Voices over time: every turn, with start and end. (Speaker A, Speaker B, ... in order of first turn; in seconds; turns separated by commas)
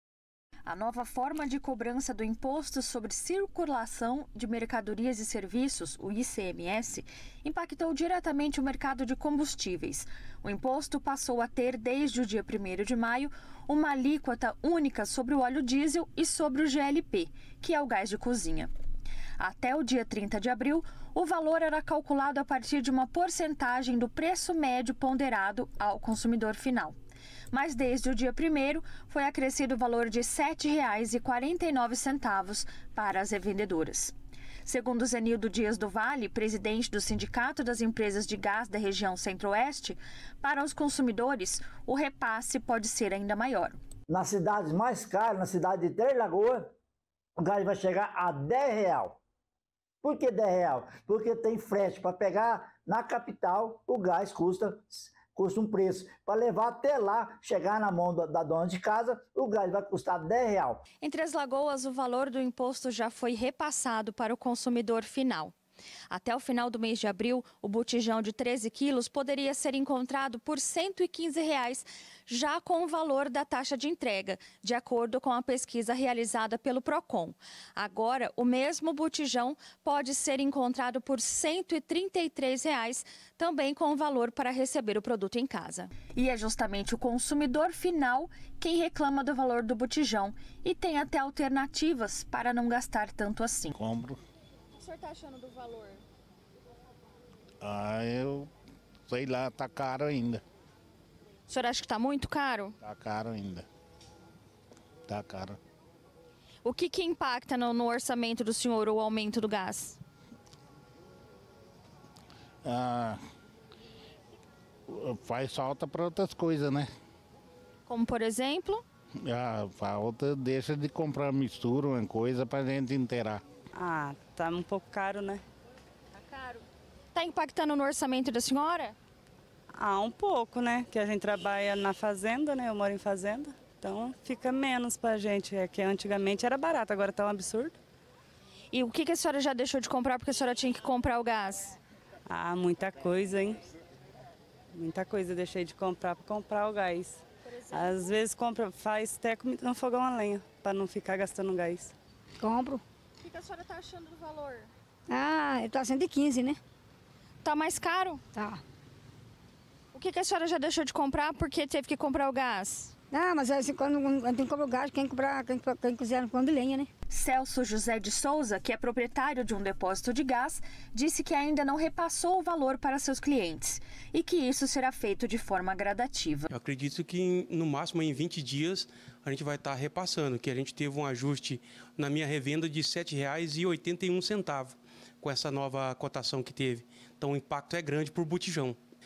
Speaker A: 0.7-18.7, Speaker A: 19.4-26.9, Speaker A: 27.5-43.8, Speaker B: 44.1-46.7, Speaker B: 47.4-49.2, Speaker B: 50.0-60.8, Speaker A: 61.0-65.5, Speaker A: 66.1-93.7, Speaker C: 93.8-94.2, Speaker A: 94.8-96.0, Speaker C: 97.6-98.5, Speaker C: 99.1-100.4, Speaker A: 101.5-102.7, Speaker C: 102.8-103.7, Speaker C: 105.1-105.6, Speaker A: 106.7-110.0, Speaker C: 112.6-113.2, Speaker C: 114.9-116.9, Speaker A: 117.9-118.8, Speaker C: 119.2-123.4, Speaker D: 123.8-125.4, Speaker A: 126.2-126.6, Speaker A: 127.1-128.9, Speaker D: 129.8-137.8, Speaker A: 138.7-141.8, Speaker D: 142.3-143.6, Speaker D: 144.7-151.9, Speaker E: 152.4-152.8, Speaker A: 153.2-154.7, Speaker E: 155.1-156.6, Speaker A: 157.4-158.2, Speaker E: 158.3-158.6, Speaker A: 159.9-162.9, Speaker E: 163.1-166.9, Speaker A: 167.1-176.5, Speaker F: 176.5-188.8